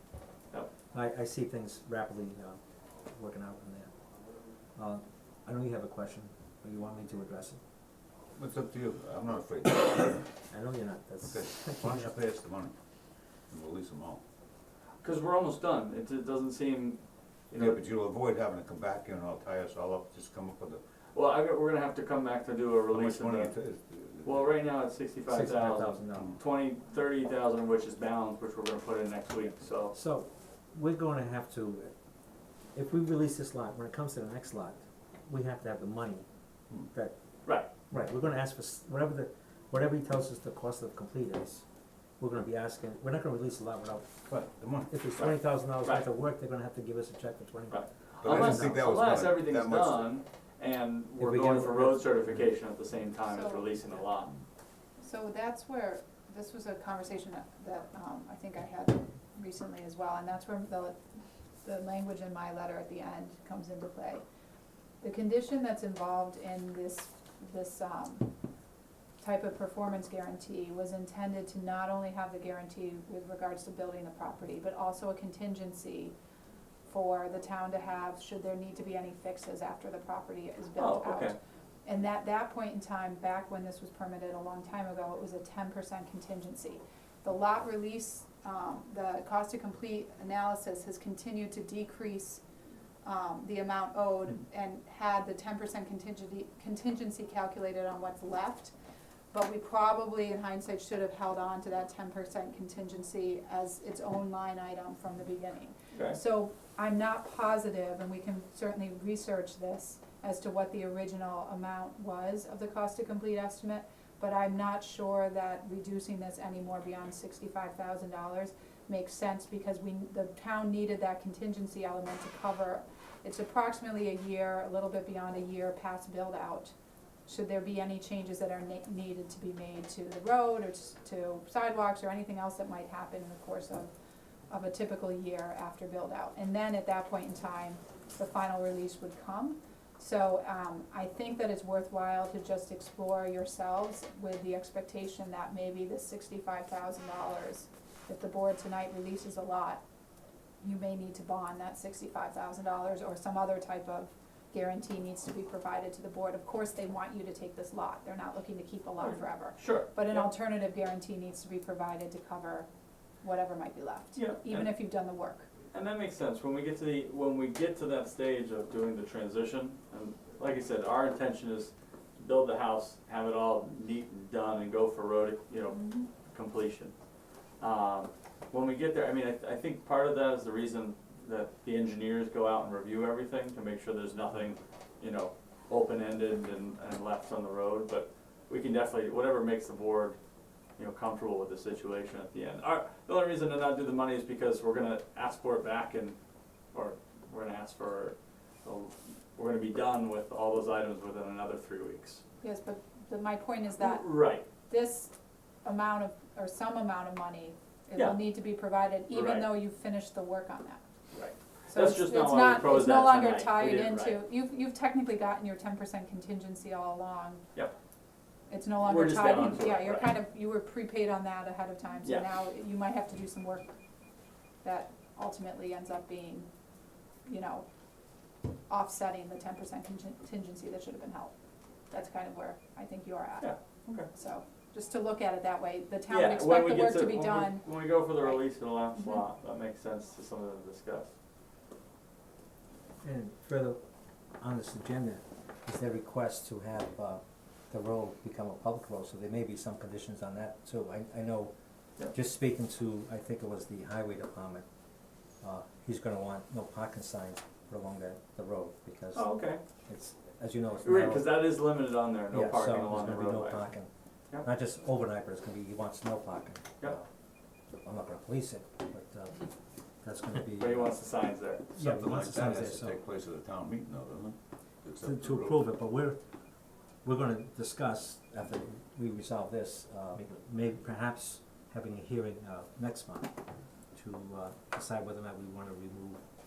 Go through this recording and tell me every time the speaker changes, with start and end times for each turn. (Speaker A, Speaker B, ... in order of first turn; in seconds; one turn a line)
Speaker A: 0.9-2.6
Speaker A: 3.1-3.9
Speaker A: 4.8-7.6
Speaker B: 8.4-10.3
Speaker A: 10.5-12.2
Speaker B: 11.3-12.7
Speaker B: 13.5-14.2
Speaker C: 15.0-17.0
Speaker C: 17.5-17.8
Speaker B: 17.5-20.8
Speaker C: 21.1-23.5
Speaker B: 22.9-24.5
Speaker C: 24.2-29.9
Speaker A: 25.3-26.3
Speaker A: 29.9-31.9
Speaker A: 32.7-36.3
Speaker A: 37.9-41.6
Speaker A: 42.2-44.2
Speaker B: 44.3-44.9
Speaker A: 44.9-49.2
Speaker C: 45.1-46.0
Speaker C: 47.7-54.3
Speaker B: 48.2-50.1
Speaker A: 51.2-52.5
Speaker D: 53.2-53.9
Speaker D: 55.0-61.0
Speaker D: 61.6-64.2
Speaker D: 65.0-68.3
Speaker D: 69.2-76.1
Speaker D: 76.9-81.3
Speaker C: 80.8-81.3
Speaker D: 81.8-92.4
Speaker D: 93.0-98.7
Speaker D: 99.3-126.7
Speaker C: 105.9-106.2
Speaker D: 127.3-133.9
Speaker D: 134.5-149.8
Speaker D: 150.6-162.7
Speaker C: 159.0-160.3
Speaker D: 163.2-165.5
Speaker C: 164.1-164.7
Speaker C: 165.7-176.9
Speaker D: 175.8-176.1
Speaker C: 177.6-190.2
Speaker C: 190.8-196.1
Speaker C: 196.7-202.2
Speaker D: 202.4-204.1
Speaker C: 203.8-204.4
Speaker D: 204.7-205.1
Speaker D: 205.6-210.8
Speaker C: 209.1-209.5
Speaker C: 211.1-214.2
Speaker D: 211.7-217.4
Speaker D: 218.5-223.7
Speaker C: 218.8-220.1
Speaker D: 224.6-226.5
Speaker D: 227.2-227.6
Speaker D: 228.7-231.3
Speaker D: 231.9-238.4
Speaker C: 233.4-234.1
Speaker C: 236.1-241.1
Speaker D: 238.9-239.2
Speaker A: 243.0-243.8
Speaker A: 244.4-251.5
Speaker A: 252.1-254.6
Speaker A: 255.4-259.3
Speaker C: 259.1-259.6
Speaker A: 259.9-261.7
Speaker C: 260.8-263.7
Speaker A: 262.3-263.9
Speaker A: 264.4-267.1
Speaker A: 267.8-269.5
Speaker A: 270.0-271.0
Speaker C: 270.6-271.7
Speaker A: 271.8-273.0
Speaker B: 271.8-275.7
Speaker A: 275.0-276.2
Speaker A: 277.0-283.4
Speaker A: 283.9-286.2